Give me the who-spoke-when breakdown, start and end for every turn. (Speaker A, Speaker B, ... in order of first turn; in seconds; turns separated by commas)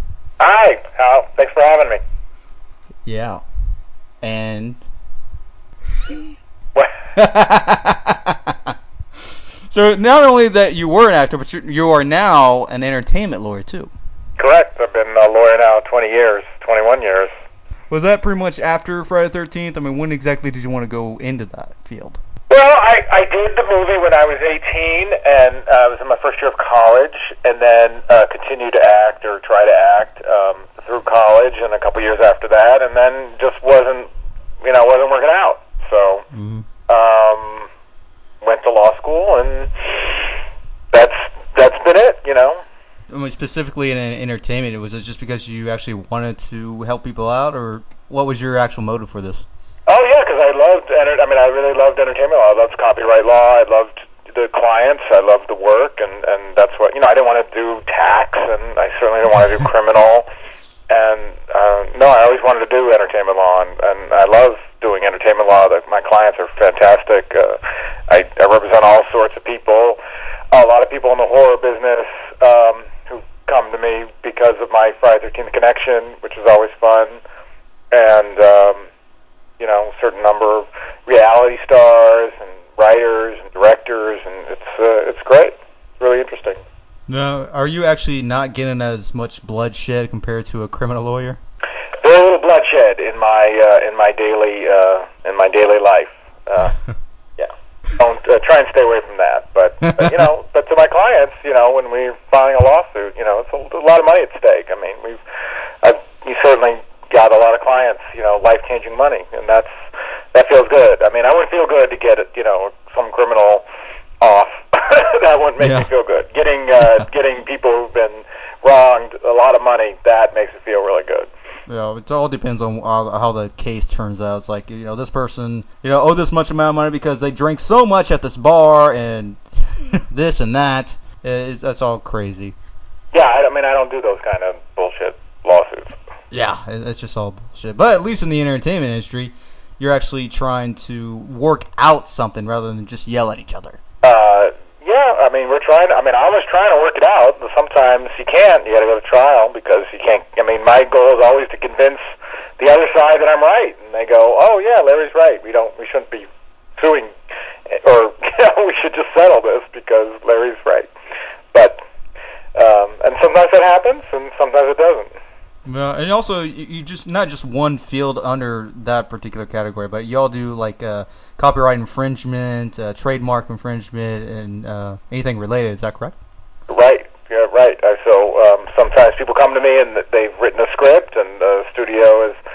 Speaker A: 0.4-2.0, Speaker B: 3.0-3.4, Speaker B: 4.2-4.8, Speaker B: 7.1-8.7, Speaker B: 9.7-13.9, Speaker A: 14.4-17.3, Speaker B: 17.9-22.2, Speaker A: 22.5-34.1, Speaker A: 34.6-36.2, Speaker B: 36.3-36.6, Speaker A: 36.9-37.7, Speaker A: 38.4-40.0, Speaker A: 40.9-42.6, Speaker B: 43.1-49.5, Speaker A: 49.9-60.2, Speaker A: 60.9-70.0, Speaker A: 70.5-77.2, Speaker A: 77.9-78.8, Speaker A: 79.6-86.6, Speaker B: 87.1-91.4, Speaker A: 92.0-96.8, Speaker A: 97.4-105.2, Speaker A: 105.8-109.7, Speaker A: 110.3-113.6, Speaker A: 114.2-121.3, Speaker B: 115.6-115.9, Speaker B: 121.7-132.5, Speaker A: 133.1-136.0, Speaker B: 136.3-143.8, Speaker A: 144.0-157.1, Speaker A: 157.7-160.9, Speaker A: 161.5-161.8, Speaker A: 162.6-165.1, Speaker B: 165.7-176.1, Speaker A: 176.7-182.4